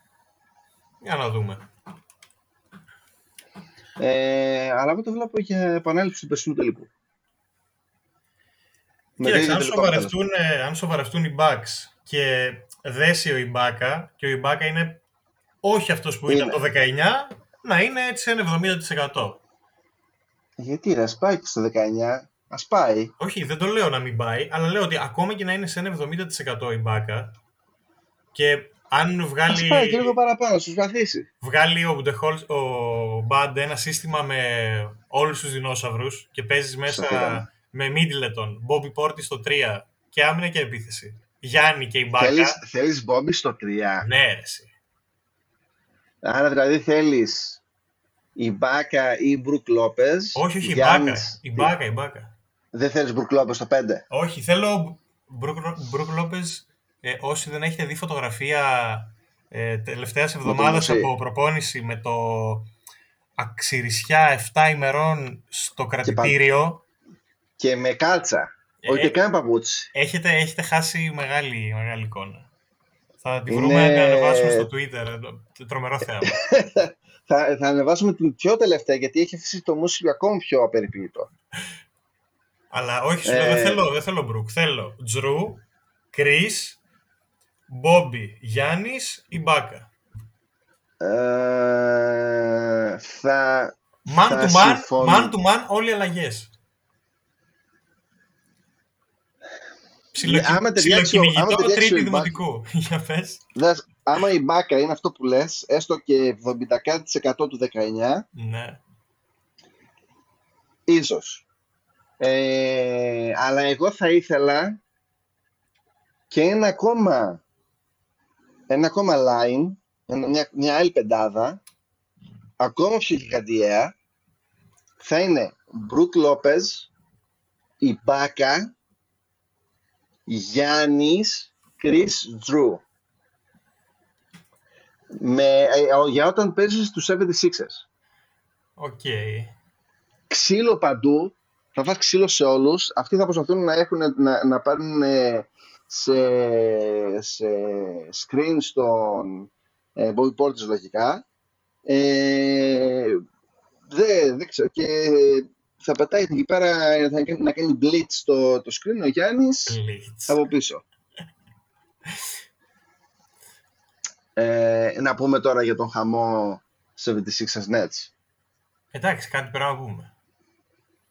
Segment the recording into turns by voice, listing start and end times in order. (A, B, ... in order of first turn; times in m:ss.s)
0:01.0-0:01.7 A
0:04.0-0:06.9 B
0:09.2-0:10.2 B
0:09.2-0:15.0 A
0:15.6-0:19.4 A
0:16.3-0:16.6 B
0:20.6-0:23.1 B
0:23.2-0:27.4 A
0:28.3-0:30.2 A
0:29.5-0:31.3 B
0:31.4-0:42.6 A
0:36.9-0:37.5 B
0:42.2-0:44.1 B
0:44.0-0:44.7 A
0:46.2-0:47.6 B
0:48.4-0:51.7 B
0:50.4-0:52.3 A
0:52.7-0:54.0 B
0:54.1-1:02.7 A
1:00.4-1:01.1 B
1:03.4-1:06.8 A
1:06.0-1:06.4 B
1:07.6-1:09.9 B
1:08.8-1:09.2 A
1:09.9-1:12.5 A
1:13.2-1:16.4 A
1:13.5-1:14.7 B
1:16.2-1:21.3 B
1:22.7-1:26.8 A
1:23.2-1:23.8 B
1:27.7-1:29.9 A
1:31.0-1:35.4 B
1:34.1-1:36.5 A
1:40.1-1:43.4 A
1:40.2-1:42.4 B
1:43.6-1:48.3 B
1:48.4-1:48.8 A
1:50.9-1:51.4 B
1:52.2-1:54.8 B
1:56.3-1:57.4 B
1:58.7-2:01.6 B
2:02.6-2:03.9 B
2:05.0-2:06.9 B
2:07.8-2:08.7 B
2:10.3-2:12.8 B
2:15.2-2:17.8 B
2:18.8-2:19.6 A
2:20.3-2:31.2 B
2:31.9-2:33.2 B
2:33.9-2:40.8 B
2:39.7-2:40.4 A
2:44.4-2:48.1 B
2:48.9-2:50.1 A